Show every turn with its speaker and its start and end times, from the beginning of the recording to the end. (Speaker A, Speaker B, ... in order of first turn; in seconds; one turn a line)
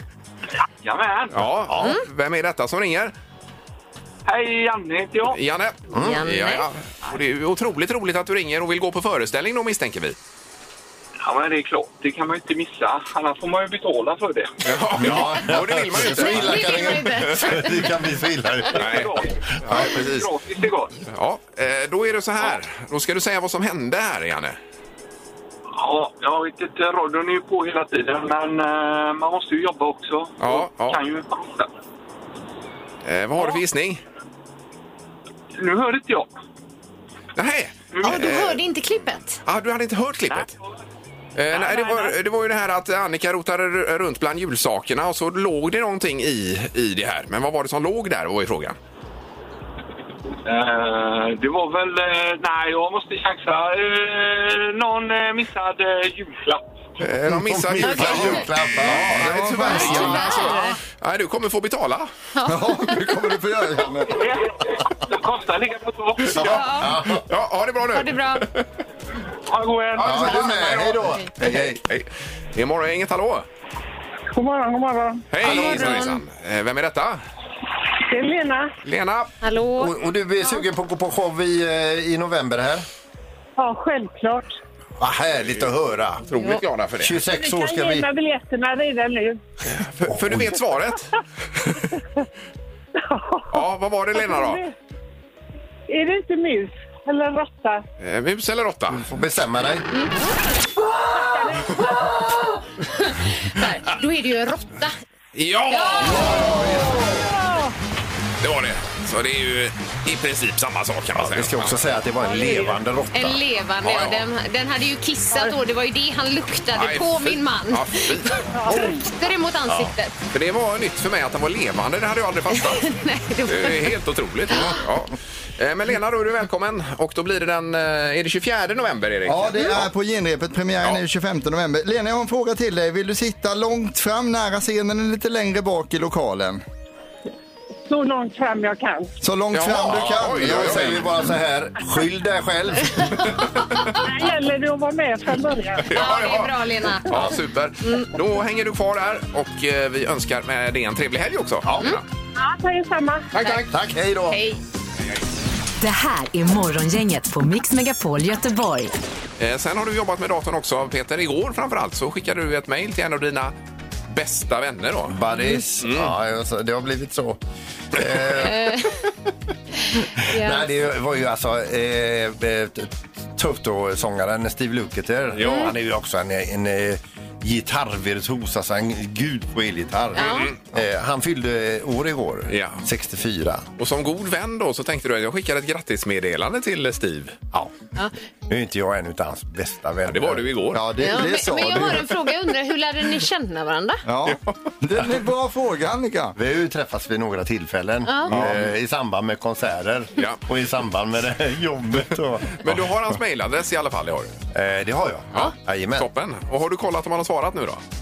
Speaker A: 0.8-1.5
Speaker B: 1.3-3.1
Speaker C: 1.7-1.9
Speaker A: 4.3-5.4
Speaker B: 5.2-10.2
Speaker C: 5.9-6.2
Speaker D: 6.0-6.7
Speaker A: 11.2-14.5
Speaker B: 14.6-17.4
Speaker C: 15.0-19.1
Speaker D: 16.1-17.9
Speaker B: 18.7-20.4
Speaker A: 18.8-21.0
Speaker C: 19.7-20.0
Speaker B: 21.1-24.6
Speaker A: 25.8-31.7
Speaker B: 30.4-31.0
Speaker B: 33.0-34.0
Speaker A: 35.6-36.3
Speaker B: 37.4-38.6
Speaker A: 37.9-38.3
Speaker D: 38.0-39.4
Speaker B: 39.5-40.5
Speaker B: 41.4-48.8
Speaker A: 41.5-42.1
Speaker A: 50.5-56.7
Speaker B: 57.0-62.1
Speaker C: 57.2-60.5
Speaker D: 57.8-58.5
Speaker E: 58.9-60.8
Speaker D: 59.7-60.8
Speaker D: 62.3-62.8
Speaker E: 62.5-64.2
Speaker A: 64.0-66.5
Speaker B: 66.3-68.7
Speaker C: 66.3-67.3
Speaker D: 66.4-67.0
Speaker D: 67.9-68.5
Speaker A: 69.5-71.0
Speaker C: 70.0-71.8
Speaker B: 70.0-70.5
Speaker B: 71.4-73.5
Speaker F: 74.3-75.3
Speaker B: 75.3-77.2
Speaker D: 75.4-76.2
Speaker F: 78.1-78.7
Speaker B: 78.8-79.3
Speaker D: 79.4-80.5
Speaker C: 79.8-82.9
Speaker F: 83.6-84.6
Speaker C: 85.0-86.2
Speaker B: 85.5-87.2
Speaker D: 86.3-86.6
Speaker C: 87.0-88.1
Speaker F: 87.3-89.4
Speaker B: 89.7-91.1
Speaker C: 90.1-90.6
Speaker F: 93.0-94.7
Speaker B: 93.5-94.7
Speaker F: 95.9-97.8
Speaker B: 98.0-99.1
Speaker C: 98.9-99.9
Speaker F: 101.2-101.8
Speaker D: 101.8-104.9
Speaker B: 105.3-106.9
Speaker D: 105.7-106.9
Speaker C: 106.1-107.0
Speaker F: 107.2-107.7
Speaker B: 108.4-111.8
Speaker C: 111.2-113.4
Speaker D: 113.1-120.2
Speaker B: 113.8-114.2
Speaker B: 116.7-118.4
Speaker C: 119.7-119.9
Speaker B: 120.3-129.9
Speaker D: 122.5-123.9
Speaker D: 124.5-124.8
Speaker E: 129.3-136.6
Speaker F: 137.9-139.2
Speaker E: 139.2-141.1
Speaker B: 139.5-141.1
Speaker C: 139.9-143.3
Speaker F: 144.0-145.9
Speaker B: 145.8-152.0
Speaker D: 145.9-147.3
Speaker C: 151.7-152.0
Speaker F: 152.4-153.5
Speaker B: 153.3-153.7
Speaker D: 153.4-153.7
Speaker C: 153.7-154.4
Speaker D: 154.3-154.6
Speaker G: 155.8-158.9
Speaker B: 159.4-163.6
Speaker B: 164.1-165.2
Speaker C: 165.1-167.4
Speaker B: 165.8-166.1
Speaker C: 167.9-168.7
Speaker D: 168.4-169.0
Speaker D: 170.2-170.7
Speaker C: 170.3-183.7
Speaker B: 175.4-175.7
Speaker D: 175.4-175.7
Speaker B: 180.2-180.6
Speaker D: 180.2-180.5
Speaker B: 182.5-182.8
Speaker B: 183.8-187.4
Speaker C: 188.5-190.8
Speaker B: 190.1-191.4
Speaker E: 190.7-192.2
Speaker D: 191.0-194.0
Speaker E: 194.1-196.4
Speaker C: 196.4-202.8
Speaker D: 198.1-198.3
Speaker E: 198.3-198.6
Speaker B: 202.5-204.4
Speaker C: 204.5-206.1
Speaker B: 205.4-207.8